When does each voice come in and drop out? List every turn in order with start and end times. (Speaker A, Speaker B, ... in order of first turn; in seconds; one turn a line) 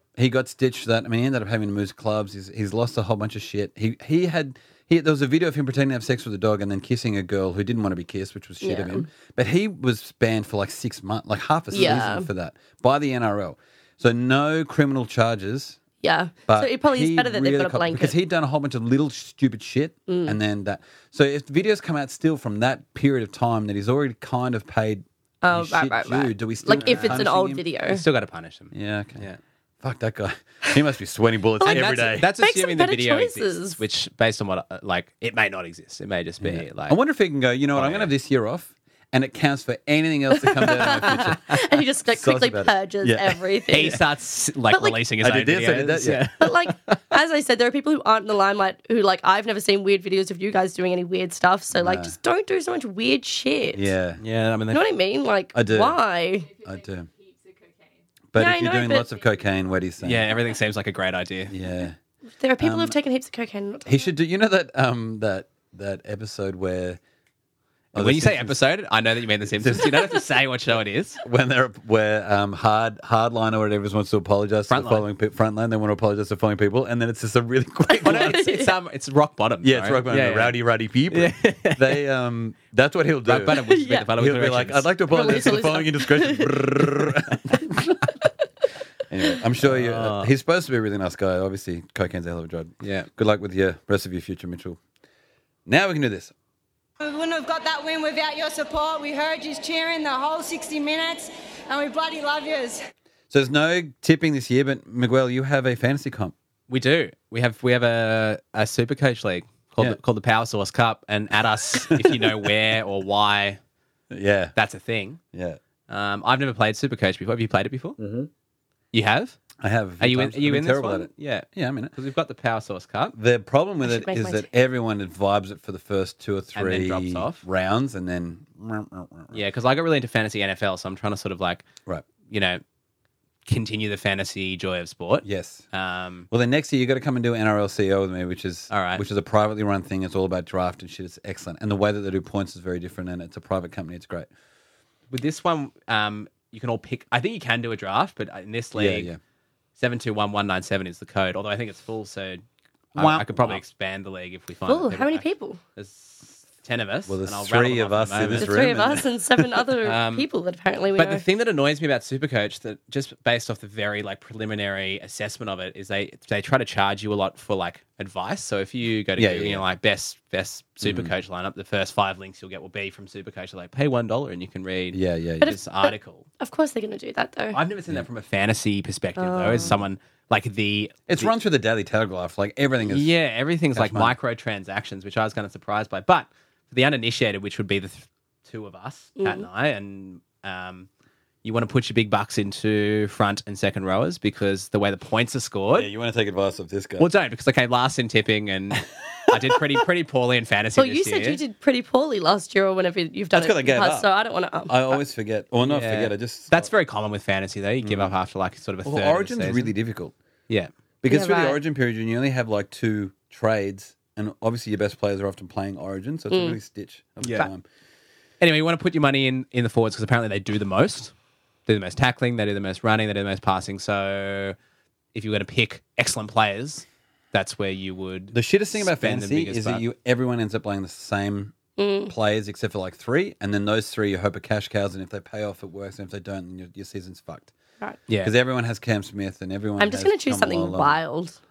Speaker A: 0.2-15.8
Speaker B: 8.6-9.1
Speaker B: 11.7-12.3
Speaker B: 16.0-18.1
Speaker A: 16.5-27.6
Speaker B: 20.1-20.4
Speaker B: 25.4-28.0
Speaker C: 26.7-27.3
Speaker C: 27.9-29.4
Speaker A: 28.7-29.3
Speaker A: 29.8-32.3
Speaker B: 31.6-33.8
Speaker C: 31.7-37.0
Speaker A: 36.4-41.6
Speaker C: 37.7-38.1
Speaker B: 40.3-44.0
Speaker A: 42.1-44.0
Speaker C: 43.7-47.0
Speaker B: 44.7-45.0
Speaker A: 45.2-46.3
Speaker B: 46.4-53.9
Speaker A: 51.7-52.1
Speaker A: 53.7-54.2
Speaker C: 54.2-54.9
Speaker B: 54.7-56.5
Speaker A: 55.5-56.0
Speaker A: 56.6-57.1
Speaker A: 58.3-60.3
Speaker B: 58.4-59.1
Speaker C: 60.0-61.5
Speaker A: 61.5-62.0
Speaker B: 62.4-64.1
Speaker A: 62.6-63.0
Speaker A: 63.9-67.0
Speaker A: 67.9-68.6
Speaker C: 68.0-71.2
Speaker A: 69.6-70.1
Speaker A: 71.2-78.5
Speaker C: 74.7-75.0
Speaker B: 77.9-78.8
Speaker C: 78.0-80.6
Speaker A: 79.6-88.1
Speaker C: 81.1-82.0
Speaker C: 83.3-84.9
Speaker B: 83.5-84.1
Speaker B: 85.1-87.1
Speaker A: 89.1-94.8
Speaker C: 89.6-90.3
Speaker C: 92.8-93.1
Speaker A: 95.7-96.3
Speaker D: 97.0-102.8
Speaker A: 103.3-106.3
Speaker C: 106.7-113.6
Speaker A: 111.9-112.5
Speaker A: 114.1-114.5
Speaker C: 114.6-115.2
Speaker A: 115.3-115.6
Speaker C: 115.9-118.0
Speaker A: 118.0-118.3
Speaker C: 118.9-119.4
Speaker A: 119.6-121.9
Speaker C: 120.0-123.2
Speaker A: 123.1-129.4
Speaker B: 123.8-124.5
Speaker C: 126.5-127.4
Speaker C: 129.3-131.7
Speaker C: 132.3-132.6
Speaker C: 133.5-136.3
Speaker A: 135.2-135.6
Speaker A: 136.3-144.3
Speaker C: 138.7-139.0
Speaker C: 145.1-149.1
Speaker A: 148.8-149.2
Speaker C: 149.8-152.4
Speaker C: 152.9-155.2
Speaker A: 152.9-153.6
Speaker B: 154.7-155.6
Speaker C: 155.8-159.0
Speaker A: 157.1-159.5
Speaker B: 158.4-161.2
Speaker C: 159.8-160.3
Speaker C: 161.0-176.3
Speaker A: 169.2-169.7
Speaker A: 170.8-171.1
Speaker A: 174.9-175.6
Speaker B: 175.4-177.6
Speaker C: 177.5-181.3
Speaker B: 179.2-179.8
Speaker A: 181.1-183.1
Speaker C: 182.9-190.9
Speaker A: 183.8-184.2
Speaker B: 189.2-189.5
Speaker C: 191.4-195.9
Speaker A: 195.7-197.1
Speaker C: 197.0-201.4
Speaker B: 200.8-205.0
Speaker A: 203.3-204.1
Speaker A: 204.7-206.7
Speaker C: 205.6-209.7
Speaker A: 207.8-208.1
Speaker A: 208.8-210.2
Speaker A: 211.0-217.7
Speaker B: 211.1-211.6
Speaker B: 216.3-216.6
Speaker C: 217.2-217.5
Speaker C: 218.4-221.1
Speaker C: 221.7-224.6
Speaker C: 225.1-229.8
Speaker A: 228.3-231.6
Speaker B: 231.8-232.1
Speaker A: 232.1-237.5
Speaker C: 238.1-238.3
Speaker A: 238.2-241.0
Speaker B: 239.8-241.4